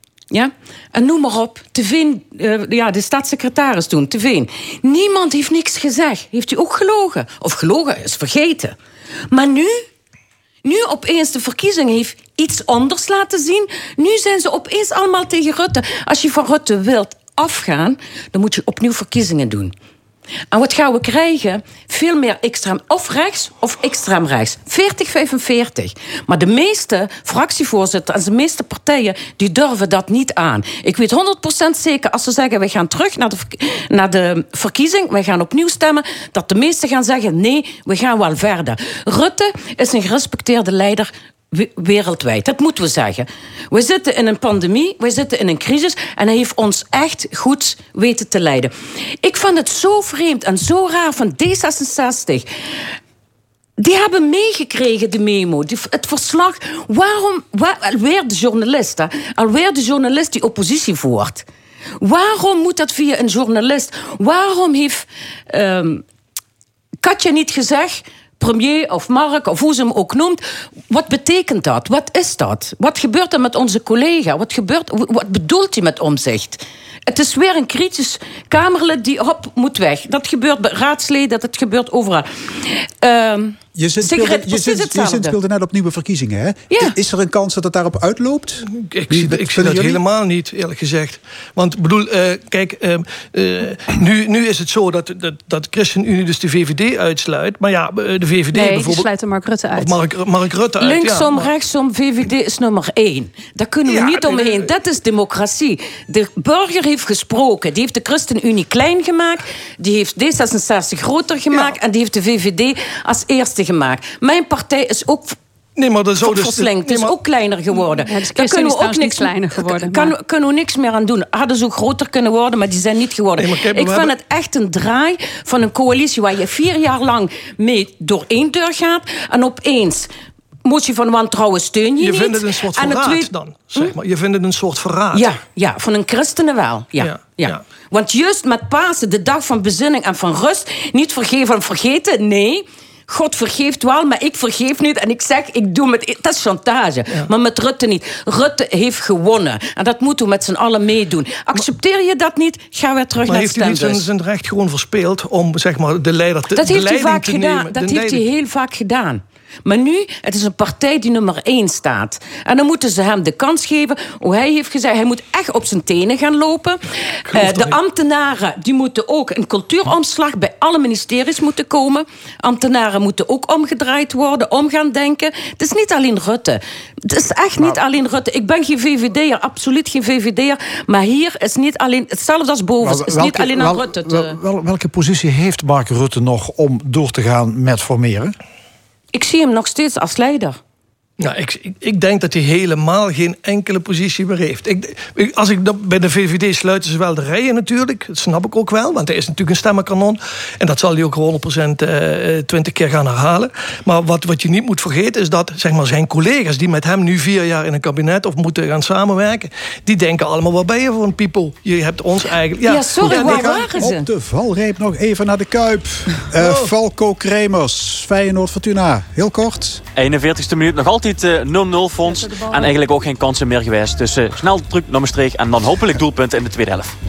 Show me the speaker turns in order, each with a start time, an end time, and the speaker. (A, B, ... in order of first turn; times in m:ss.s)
0:00.3-0:08.8 A
0:09.3-0:09.8 A
0:10.6-0:19.7 A
0:20.5-0:52.5 A
0:53.8-1:01.4 A
1:02.0-1:06.0 A
1:07.0-1:25.3 A
1:23.7-1:30.0 B
1:28.7-1:39.1 C
1:38.5-1:40.0 D
1:39.7-1:41.5 C
1:40.8-1:55.4 A
1:43.8-1:44.7 C
1:51.5-1:51.8 C
1:55.8-1:57.2 C
1:56.2-2:10.1 A
1:58.0-2:00.1 D
2:03.3-2:04.2 C
2:10.6-2:13.9 A
2:12.0-2:15.3 C
2:15.1-2:34.0 A
2:17.0-2:17.6 C
2:33.2-2:38.3 C
2:36.5-3:04.4 A
2:47.2-2:47.8 C
3:02.8-3:08.3 E
3:09.1-3:10.6 A
3:11.2-3:33.7 C
3:32.6-3:34.0 A
3:33.0-3:39.8 B
3:36.4-3:36.7 C
3:39.9-3:46.9 F
3:42.0-3:42.8 D